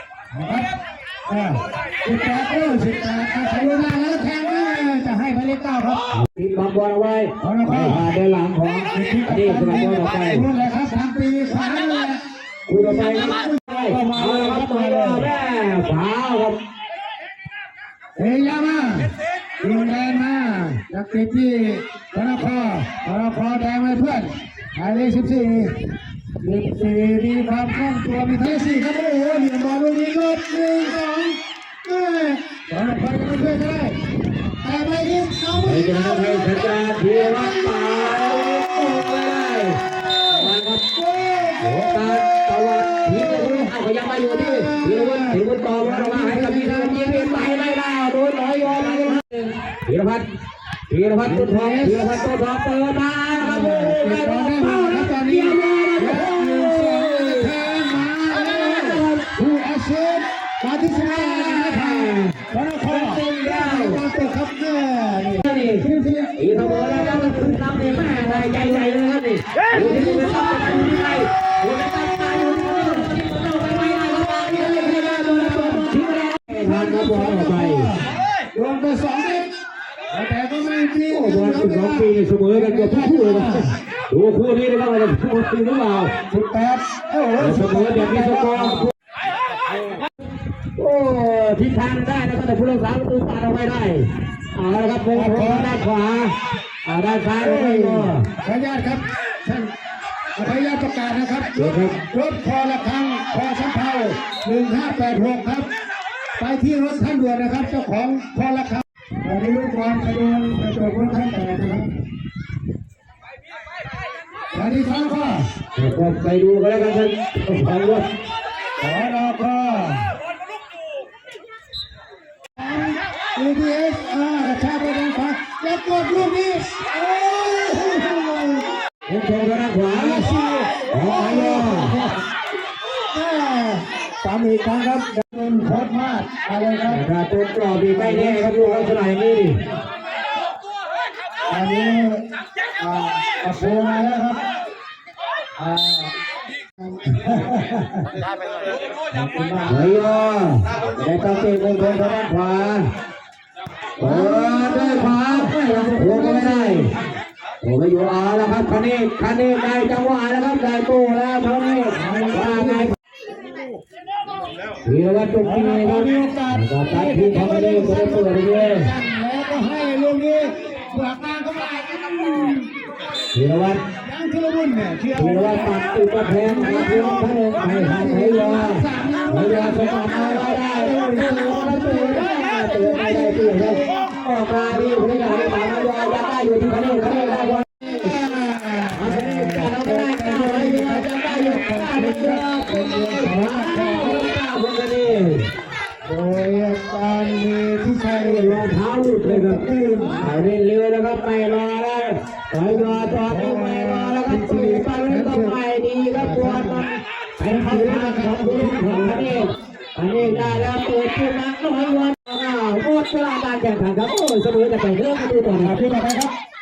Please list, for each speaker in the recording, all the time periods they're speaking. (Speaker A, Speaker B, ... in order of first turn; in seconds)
Speaker A: 0.3-6.1, 7.4-8.1, 8.9-15.3, 18.2-25.7, 26.4-34.0, 34.6-36.5, 37.3-37.9, 41.1-41.6, 43.1-43.7, 44.3-47.6, 48.6-49.2, 51.2-52.2, 53.4-68.9, 69.7-70.7, 74.5-75.9, 76.5-79.5, 80.1-83.8, 86.3-88.9, 95.1-95.8, 97.4-99.7, 100.3-105.7, 106.4-111.9, 114.5-115.5, 118.8-120.0, 122.6-128.7, 129.9-132.2, 133.1-137.0, 137.9-139.0, 141.5-142.2, 142.8-144.4, 145.6-146.1, 147.0-148.1, 149.2-149.9, 154.0-156.9, 161.9-162.9, 165.4-172.7, 174.0-175.8, 176.4-183.9, 187.8-194.3, 196.1-198.6, 199.2-200.2, 202.8-205.6, 206.1-206.8, 207.4-209.4, 215.5-216.3
Speaker B: 6.1-10.5, 12.7-16.6, 35.5-50.2, 50.9-57.6, 58.3-59.3, 60.9-64.0, 65.4-78.0, 81.1-86.1, 87.4-88.9, 90.8-98.2, 101.5-102.0, 115.7-118.1, 129.1-130.3, 130.9-131.9, 136.9-139.6, 149.6-152.8, 154.0-156.9, 157.6-162.9, 164.8-168.9, 173.3-173.8, 175.1-188.1, 188.9-195.5, 198.2-215.9